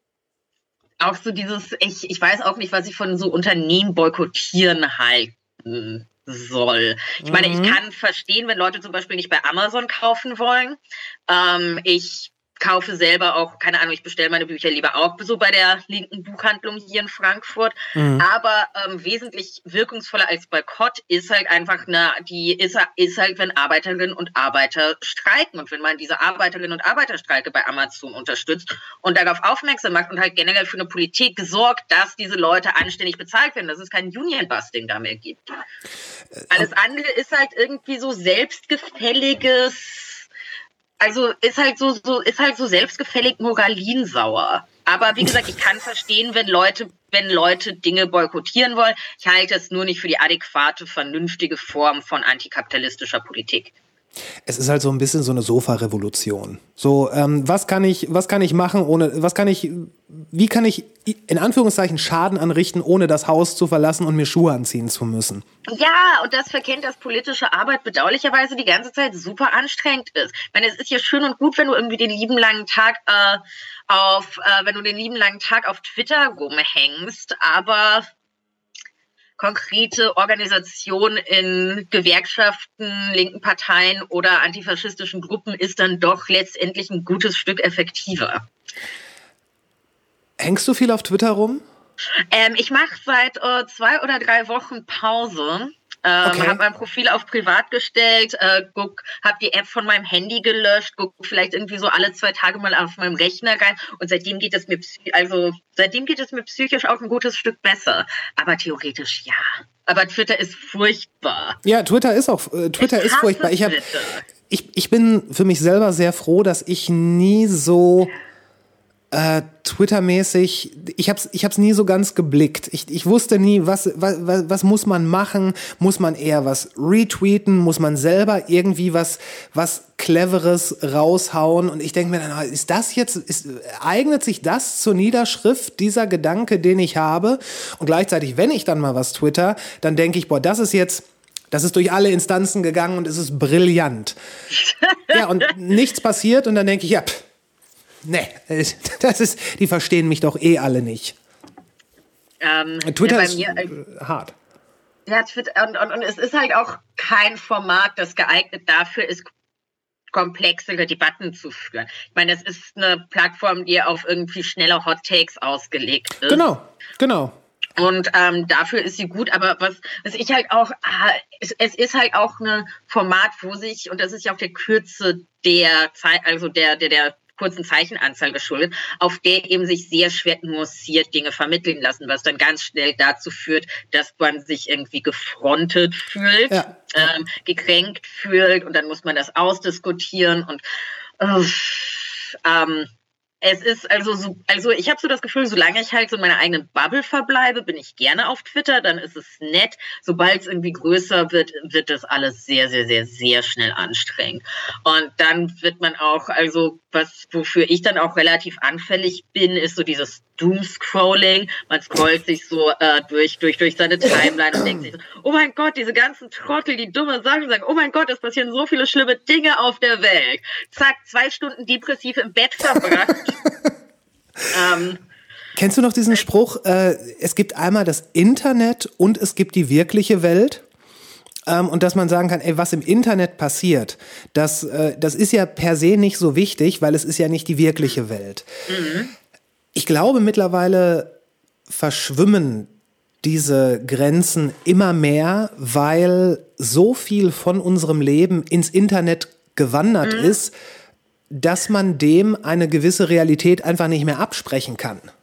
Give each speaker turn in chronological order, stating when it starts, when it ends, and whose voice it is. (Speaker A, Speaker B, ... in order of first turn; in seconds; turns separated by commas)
Speaker A: 1.0-35.5, Speaker B: 7.2-7.8, Speaker B: 17.9-18.2, Speaker A: 36.5-40.3, Speaker A: 41.0-53.7, Speaker B: 54.5-65.4, Speaker A: 65.7-78.1, Speaker A: 79.4-88.4, Speaker B: 90.4-91.6, Speaker A: 92.3-111.6, Speaker B: 96.2-96.6, Speaker B: 111.6-113.8, Speaker A: 112.8-114.2, Speaker B: 114.5-118.1, Speaker B: 119.1-144.2, Speaker A: 144.5-145.5, Speaker B: 145.1-147.2, Speaker B: 148.0-151.2, Speaker A: 152.4-153.7, Speaker B: 152.8-154.3, Speaker A: 155.1-159.3, Speaker A: 160.1-166.4, Speaker B: 166.3-167.3, Speaker A: 167.8-190.6, Speaker B: 186.5-186.8, Speaker A: 191.2-192.9, Speaker A: 193.4-223.4, Speaker A: 224.5-225.0, Speaker B: 225.6-230.6, Speaker B: 231.5-238.5, Speaker A: 238.7-239.1, Speaker B: 239.7-241.1, Speaker B: 241.7-242.7, Speaker B: 243.2-250.5, Speaker A: 250.0-250.3, Speaker B: 251.3-255.1